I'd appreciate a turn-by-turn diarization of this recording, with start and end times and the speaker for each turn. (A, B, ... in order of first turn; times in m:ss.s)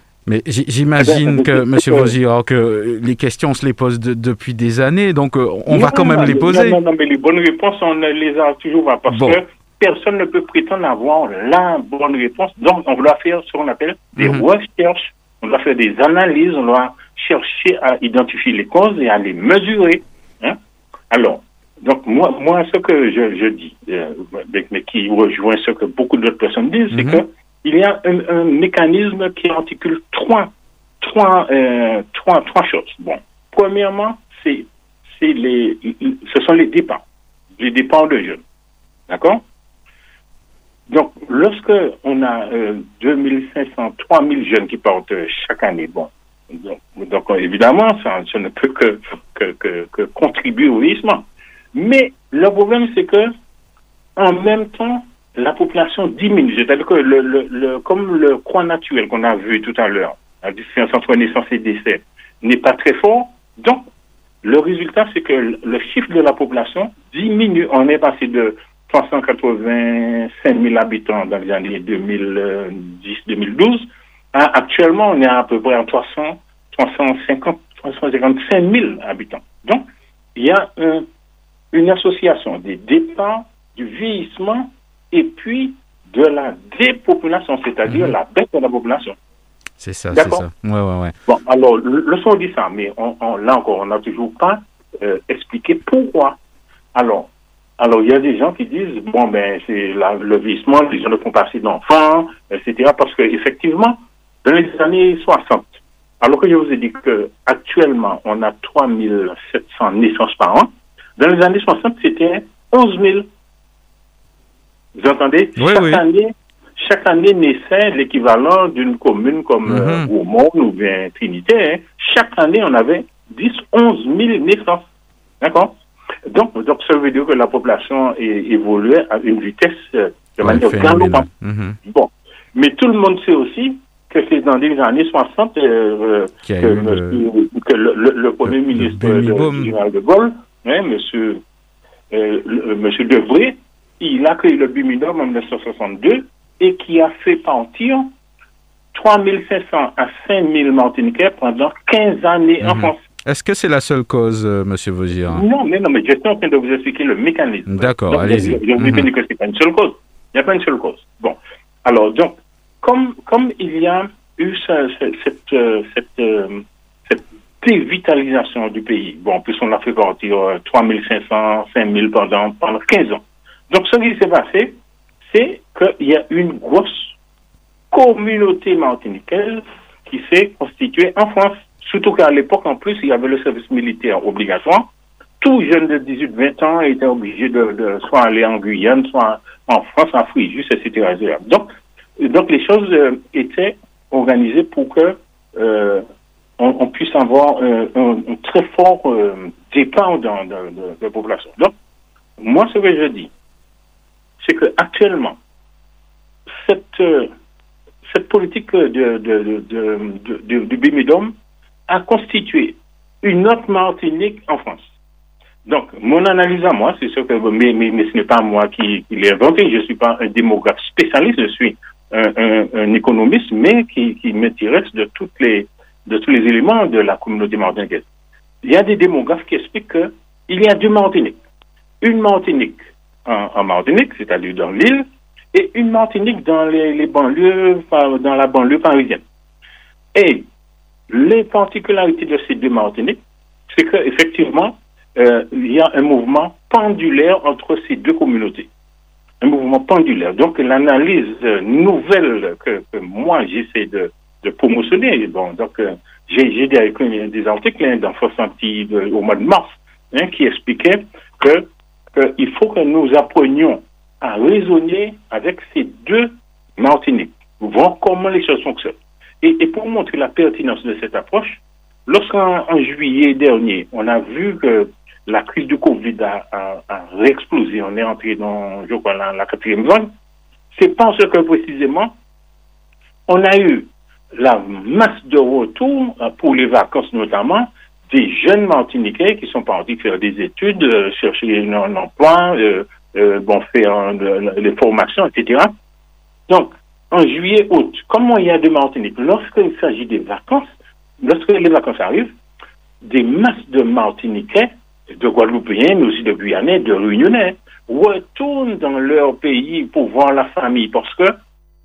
0:00.2-0:06.8 A
0:01.0-0:02.1 B
0:05.7-0:20.6 B
0:09.1-0:09.4 A
0:14.2-0:14.4 A
0:21.1-0:37.0 B
0:26.9-0:27.2 A
0:37.6-0:38.4 B
0:39.1-0:39.4 B
0:40.9-0:53.3 B
0:54.2-1:03.9 B
1:04.4-1:21.1 B
1:21.7-1:29.2 B
1:27.9-1:28.1 A
1:29.8-1:31.1 A
1:30.1-1:30.4 B
1:31.3-1:36.4 B
1:36.9-1:53.3 B
1:55.0-2:04.9 B
1:55.6-1:56.0 A
1:59.6-2:00.1 A
2:05.4-2:05.8 B
2:06.3-2:11.3 B
2:10.4-2:11.8 A
2:11.8-2:21.4 B
2:16.4-2:17.2 A
2:18.4-2:19.7 A
2:22.1-2:28.1 B
2:28.9-2:33.0 B
2:32.6-2:35.4 A
2:35.3-2:57.1 B
2:37.7-2:39.1 A
2:57.9-3:04.9 B
3:05.4-3:16.0 B
3:16.6-3:21.7 B
3:22.4-3:23.3 B
3:24.4-3:25.4 B
3:26.5-3:27.3 B
3:28.0-3:31.3 B
3:31.9-3:34.9 B
3:35.6-3:48.0 B
3:48.6-3:51.4 B
3:52.0-3:59.2 B
4:00.1-4:00.5 B
4:01.1-4:08.7 B
4:09.4-4:40.1 B
4:40.7-4:42.1 B
4:43.3-4:55.7 B
4:56.5-5:00.7 B
5:01.2-5:02.3 B
5:03.0-5:11.4 B